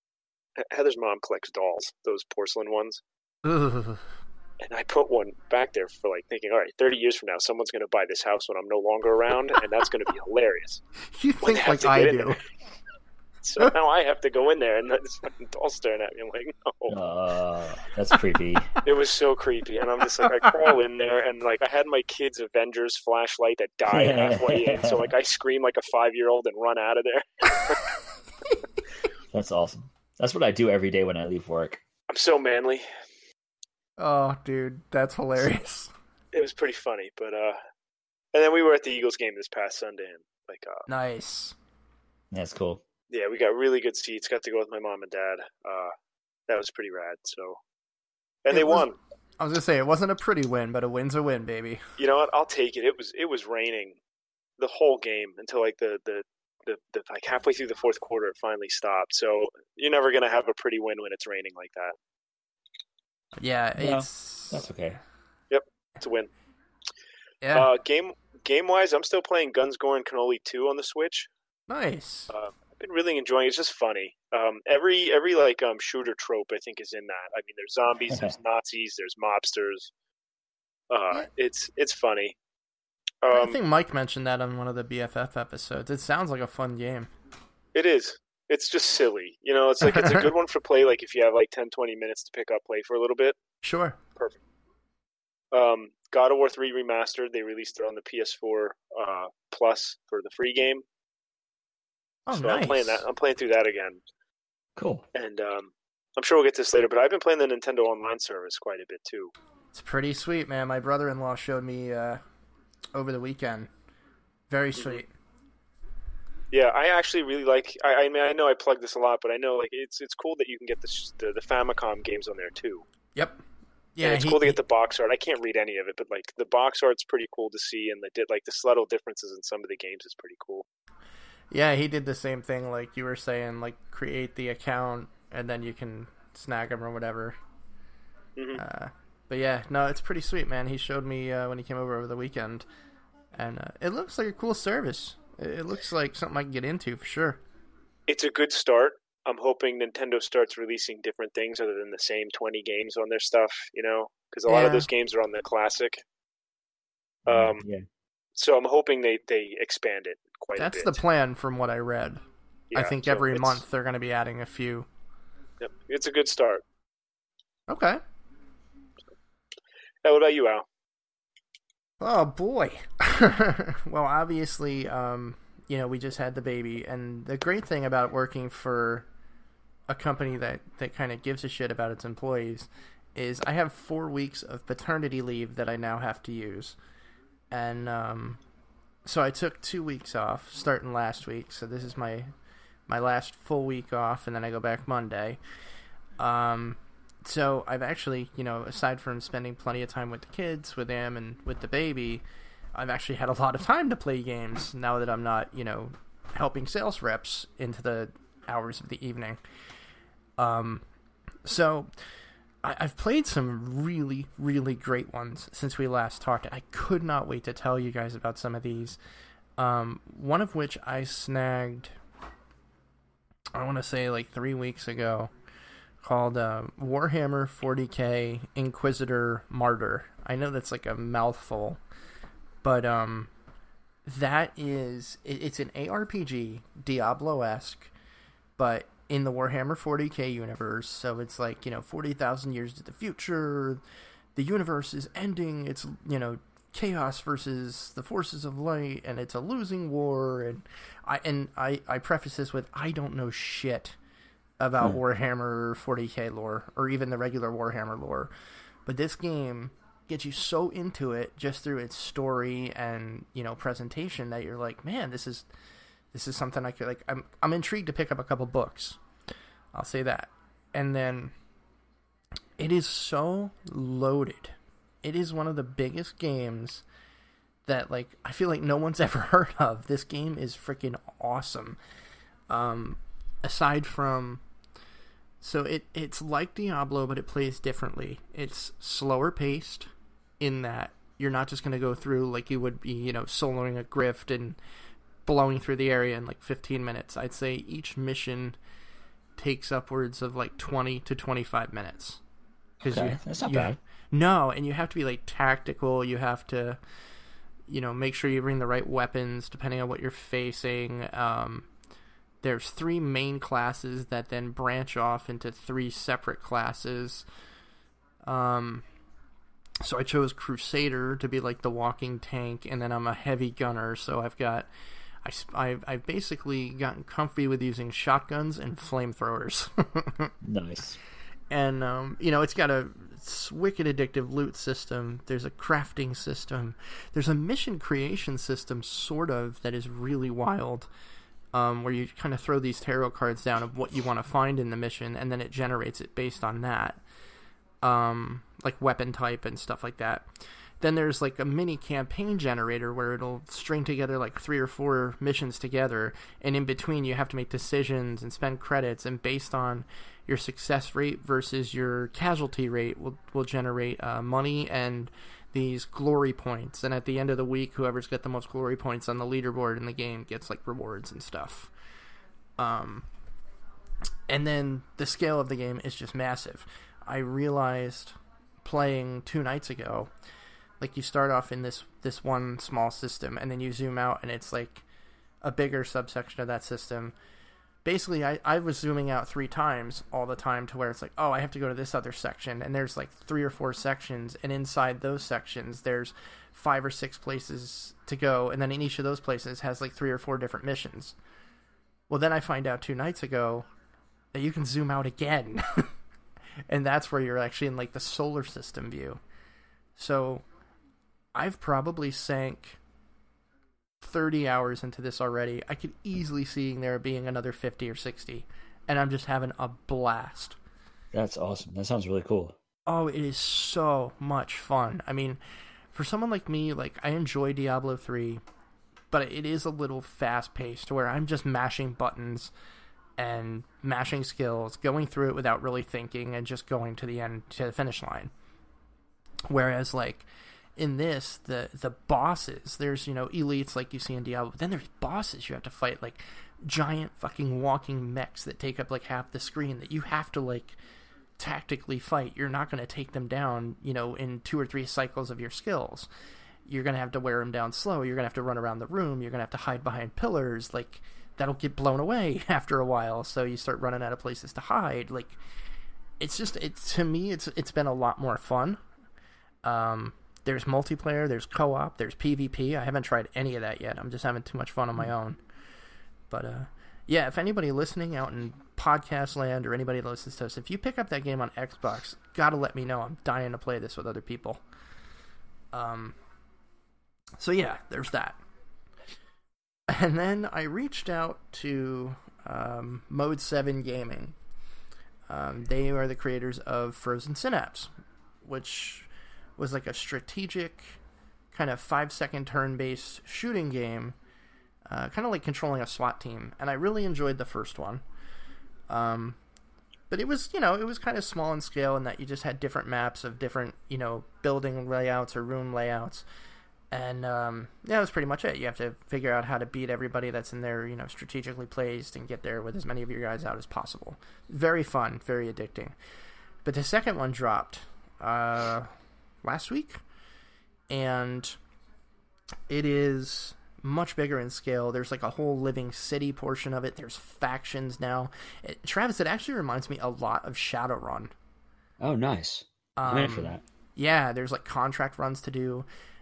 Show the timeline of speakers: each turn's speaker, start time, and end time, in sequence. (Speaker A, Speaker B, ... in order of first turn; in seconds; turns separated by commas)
Speaker A: 0.6-3.0, Speaker B: 3.4-4.0, Speaker A: 4.6-10.8, Speaker B: 11.0-12.4, Speaker A: 11.4-12.4, Speaker A: 13.4-17.0, Speaker C: 16.9-18.8, Speaker A: 18.8-27.9, Speaker C: 23.9-25.1, Speaker C: 29.3-31.8, Speaker A: 32.1-32.8, Speaker B: 34.0-35.9, Speaker A: 36.3-37.6, Speaker A: 38.3-40.9, Speaker B: 40.9-41.5, Speaker C: 42.3-42.8, Speaker A: 43.1-45.9, Speaker A: 46.5-47.6, Speaker A: 48.4-49.0, Speaker B: 48.5-48.8, Speaker B: 49.4-51.8, Speaker A: 52.0-54.0, Speaker A: 54.6-61.9, Speaker B: 63.4-64.7, Speaker C: 63.8-65.0, Speaker A: 65.5-66.3, Speaker B: 67.4-67.7, Speaker A: 67.5-71.3, Speaker B: 71.7-72.3, Speaker A: 72.3-79.9, Speaker C: 78.1-78.3, Speaker A: 80.9-82.3, Speaker A: 83.2-83.6, Speaker B: 83.3-87.1, Speaker A: 87.7-93.4, Speaker B: 89.8-90.2, Speaker B: 93.6-94.0, Speaker A: 95.5-100.8, Speaker B: 102.3-103.0, Speaker A: 102.3-104.0, Speaker C: 104.8-105.0, Speaker A: 105.1-109.3, Speaker B: 109.7-112.2, Speaker B: 112.9-113.7, Speaker B: 114.5-115.1, Speaker A: 116.5-122.8, Speaker B: 123.2-123.4, Speaker B: 123.9-124.6, Speaker A: 124.0-130.6, Speaker B: 131.5-137.4, Speaker A: 138.3-138.6, Speaker B: 138.5-142.7, Speaker B: 143.3-147.4, Speaker A: 148.1-156.0, Speaker B: 154.5-154.9, Speaker A: 157.2-157.6, Speaker C: 157.2-157.8, Speaker A: 158.4-161.0, Speaker B: 160.6-162.2, Speaker A: 162.7-163.6, Speaker B: 162.7-164.9, Speaker A: 165.6-166.6, Speaker B: 167.7-168.0, Speaker A: 170.0-170.6, Speaker B: 172.0-179.1, Speaker B: 179.9-186.8, Speaker B: 187.5-188.4, Speaker B: 189.1-192.3, Speaker B: 192.9-195.4, Speaker B: 196.2-202.2, Speaker B: 202.7-209.4, Speaker B: 210.4-210.8, Speaker B: 211.4-211.9, Speaker B: 212.6-219.0, Speaker B: 219.6-221.9, Speaker B: 223.5-225.3, Speaker B: 226.0-231.8, Speaker B: 232.6-233.3, Speaker B: 234.1-237.9, Speaker B: 238.6-243.8, Speaker B: 244.3-254.0, Speaker B: 254.6-258.3, Speaker B: 258.9-265.5, Speaker B: 266.1-269.0, Speaker B: 269.7-271.3, Speaker B: 272.6-276.8, Speaker B: 277.6-281.8, Speaker B: 282.5-284.4, Speaker B: 285.4-294.6, Speaker B: 295.2-298.6, Speaker B: 299.4-302.2, Speaker C: 302.8-303.8, Speaker B: 302.8-306.8, Speaker B: 307.7-311.7, Speaker B: 312.4-317.2, Speaker B: 318.2-318.8, Speaker B: 319.8-324.7, Speaker B: 325.2-330.3, Speaker C: 330.4-331.0, Speaker B: 331.5-340.9, Speaker B: 341.5-347.0, Speaker B: 347.8-371.7, Speaker B: 372.6-373.1, Speaker B: 374.3-380.1, Speaker B: 380.8-384.8, Speaker B: 385.4-387.1, Speaker B: 387.8-401.1, Speaker B: 402.1-403.7, Speaker B: 404.3-405.9, Speaker B: 406.7-409.2, Speaker B: 409.9-410.4, Speaker B: 411.3-412.8, Speaker B: 414.0-420.6, Speaker C: 421.1-422.6, Speaker B: 422.9-425.4, Speaker B: 425.9-428.4, Speaker B: 429.1-432.5, Speaker B: 433.2-438.3, Speaker B: 439.5-440.2, Speaker B: 440.8-450.8, Speaker B: 451.4-456.1, Speaker B: 456.6-465.4, Speaker B: 466.2-468.8, Speaker B: 469.6-475.4, Speaker B: 476.3-484.6, Speaker B: 485.7-486.1, Speaker B: 487.4-488.4, Speaker B: 489.9-494.4, Speaker B: 495.3-497.9, Speaker B: 498.4-501.0, Speaker B: 501.5-504.1, Speaker B: 504.9-508.0, Speaker B: 508.9-509.4, Speaker B: 510.1-516.2, Speaker B: 516.9-526.0, Speaker B: 526.6-528.9, Speaker B: 529.4-530.0, Speaker B: 530.9-531.6, Speaker B: 532.7-541.3, Speaker C: 542.0-543.6, Speaker B: 543.0-545.9